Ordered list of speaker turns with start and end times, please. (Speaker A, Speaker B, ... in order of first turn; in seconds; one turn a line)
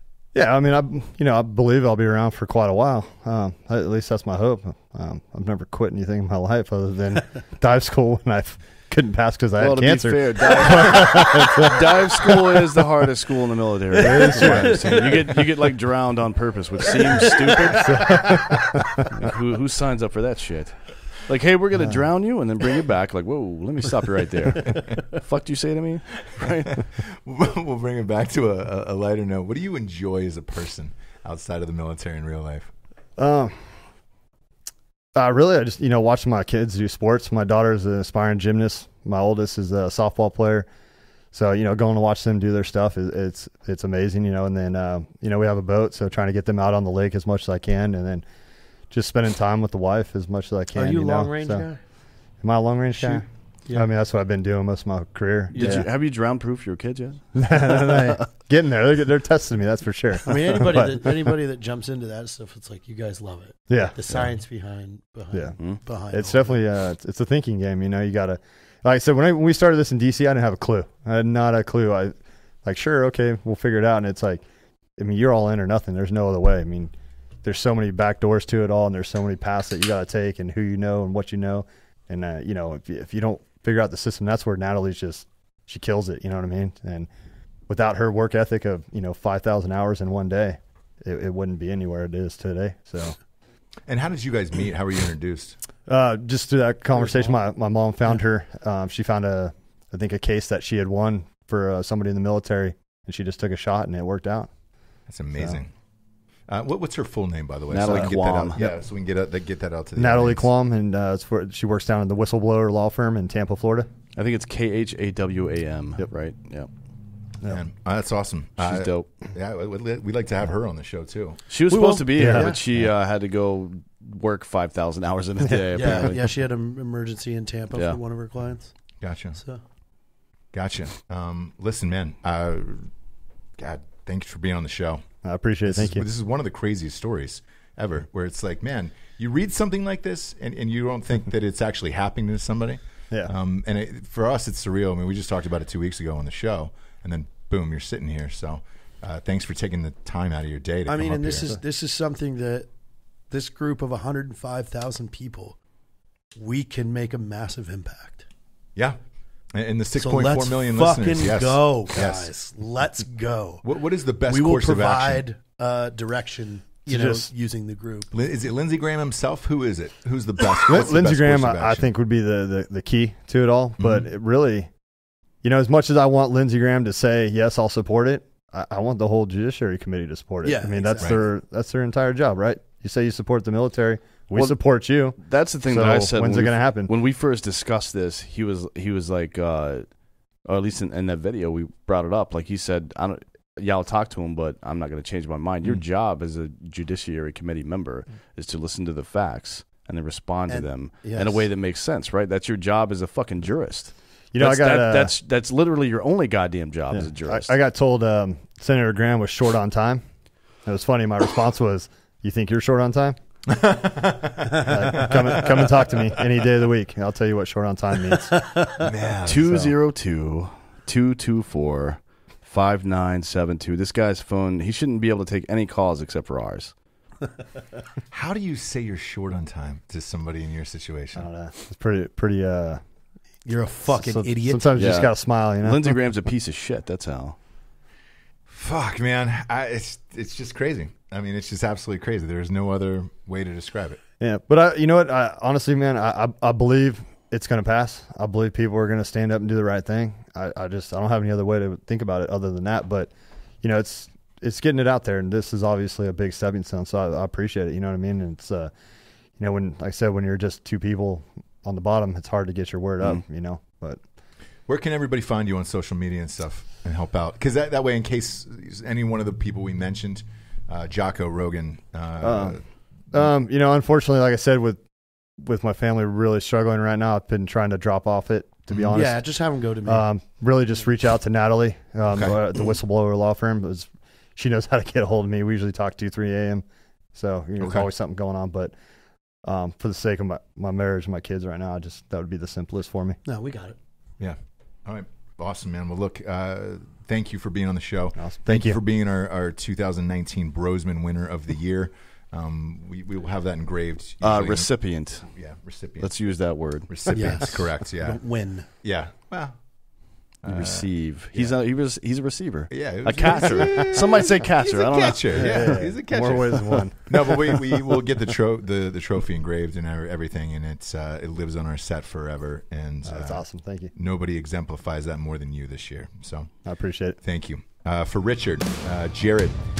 Speaker A: 0.3-12.3
Speaker B: 9.6-26.8
Speaker A: 14.0-14.8
Speaker C: 14.0-15.2
Speaker C: 17.1-18.4
Speaker A: 17.9-19.1
Speaker D: 26.7-32.7
Speaker A: 33.2-33.6
Speaker A: 35.1-40.7
Speaker A: 41.3-48.2
Speaker A: 48.9-51.7
Speaker C: 50.7-51.8
Speaker A: 52.4-55.9
Speaker C: 53.0-53.9
Speaker B: 55.5-58.3
Speaker C: 55.5-55.8
Speaker A: 57.4-61.3
Speaker C: 60.3-66.6
Speaker A: 63.7-64.2
Speaker A: 66.1-74.4
Speaker A: 75.0-87.1
Speaker A: 87.7-93.2
Speaker D: 93.9-95.6
Speaker A: 95.9-104.5
Speaker D: 105.1-105.7
Speaker D: 106.5-110.5
Speaker B: 107.7-108.6
Speaker A: 107.9-108.8
Speaker A: 110.0-113.9
Speaker B: 114.2-116.7
Speaker D: 117.5-121.4
Speaker B: 118.6-119.1
Speaker B: 121.5-126.2
Speaker C: 121.7-122.6
Speaker A: 122.2-122.6
Speaker C: 125.7-128.7
Speaker D: 129.0-129.4
Speaker D: 130.5-132.9
Speaker D: 133.6-135.0
Speaker A: 135.2-136.0
Speaker D: 135.7-151.5
Speaker C: 150.9-152.7
Speaker C: 153.3-155.6
Speaker C: 156.3-158.3
Speaker D: 159.5-162.3
Speaker C: 160.0-163.6
Speaker D: 163.6-165.2
Speaker C: 164.3-168.1
Speaker D: 166.9-167.3
Speaker D: 168.1-171.9
Speaker A: 170.7-174.7
Speaker D: 173.8-174.1
Speaker A: 175.4-186.9
Speaker C: 180.4-181.1
Speaker B: 185.2-189.9
Speaker B: 190.5-207.6
Speaker C: 200.5-201.5
Speaker A: 204.3-205.2
Speaker A: 206.9-210.0
Speaker A: 210.7-213.2
Speaker D: 213.5-215.8
Speaker A: 214.6-218.4
Speaker C: 218.3-218.9
Speaker D: 218.8-219.5
Speaker B: 219.2-226.7
Speaker A: 219.4-219.8
Speaker D: 228.1-231.3
Speaker A: 231.2-232.8
Speaker C: 233.4-234.7
Speaker A: 233.9-236.0
Speaker B: 234.8-237.4
Speaker D: 238.5-244.0
Speaker A: 244.2-253.1
Speaker A: 253.6-258.7
Speaker A: 259.4-264.0
Speaker D: 264.7-272.6
Speaker A: 272.2-272.6
Speaker A: 273.1-274.8
Speaker A: 275.4-279.2
Speaker D: 278.7-279.0
Speaker C: 278.9-280.1
Speaker A: 279.9-288.7
Speaker D: 287.6-287.9
Speaker A: 289.4-293.2
Speaker C: 293.2-293.8
Speaker D: 294.2-304.7
Speaker A: 298.2-298.8
Speaker B: 304.2-305.3
Speaker D: 305.3-306.1
Speaker B: 306.0-306.9
Speaker D: 306.9-308.2
Speaker C: 307.1-308.7
Speaker D: 308.8-309.6
Speaker D: 310.4-311.5
Speaker B: 310.5-315.9
Speaker D: 312.7-323.4
Speaker A: 315.3-318.0
Speaker A: 323.1-323.9
Speaker D: 323.9-326.5
Speaker A: 326.7-327.2
Speaker D: 327.2-329.6